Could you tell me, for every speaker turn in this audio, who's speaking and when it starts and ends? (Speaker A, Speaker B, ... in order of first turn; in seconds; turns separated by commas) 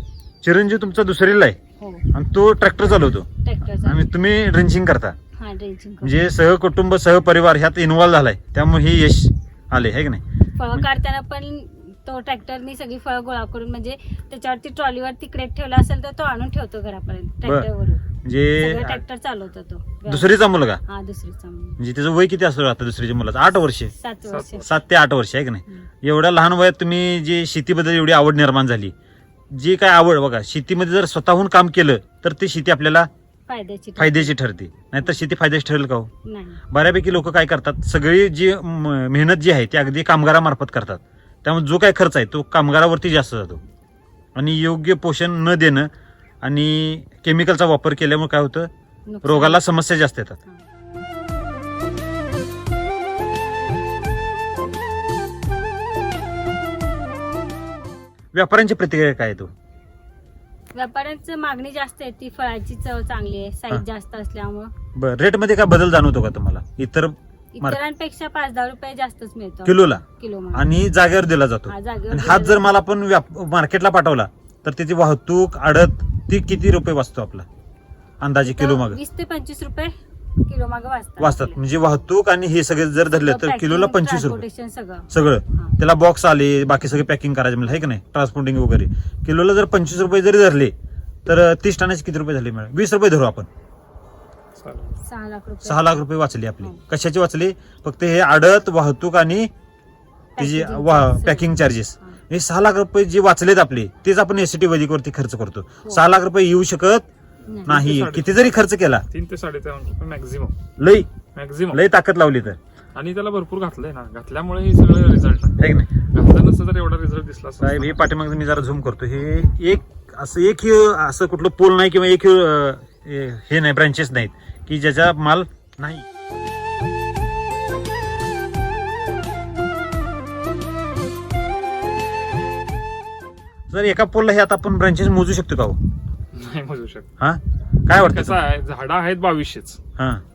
Speaker A: 0.4-1.6, Speaker B: 1.8-2.1, Speaker A: 2.1-3.3, Speaker B: 3.4-4.0, Speaker A: 3.8-5.2, Speaker B: 5.3-6.1, Speaker A: 6.0-10.2, Speaker B: 10.6-18.0, Speaker A: 18.2-19.0, Speaker B: 18.6-21.8, Speaker A: 20.1-20.8, Speaker A: 21.8-23.9, Speaker B: 23.9-24.7, Speaker C: 24.3-24.6, Speaker A: 24.6-28.9, Speaker A: 29.5-33.1, Speaker B: 33.5-34.4, Speaker A: 34.0-36.1, Speaker B: 36.2-36.6, Speaker A: 36.7-43.6, Speaker A: 44.3-45.9, Speaker A: 46.4-48.7, Speaker B: 49.1-49.6, Speaker A: 49.2-50.4, Speaker A: 58.3-59.5, Speaker B: 60.7-64.7, Speaker A: 64.9-67.8, Speaker B: 67.5-70.7, Speaker A: 69.6-70.0, Speaker A: 70.5-77.5, Speaker B: 71.7-72.7, Speaker A: 78.2-79.0, Speaker B: 78.4-81.6, Speaker A: 81.2-84.4, Speaker B: 83.1-85.8, Speaker A: 85.1-90.7, Speaker A: 91.2-93.5, Speaker C: 94.5-95.0, Speaker B: 95.0-96.0, Speaker A: 95.6-99.5, Speaker B: 100.4-102.2, Speaker A: 100.4-107.0, Speaker B: 107.5-107.7, Speaker A: 107.7-109.0, Speaker C: 107.7-110.5, Speaker A: 110.8-111.1, Speaker C: 111.3-111.8, Speaker A: 111.7-112.6, Speaker C: 112.9-117.9, Speaker A: 115.6-115.9, Speaker A: 117.6-126.0, Speaker A: 133.7-135.8, Speaker C: 136.3-137.1, Speaker A: 137.2-138.4, Speaker C: 137.9-139.8, Speaker A: 140.0-140.2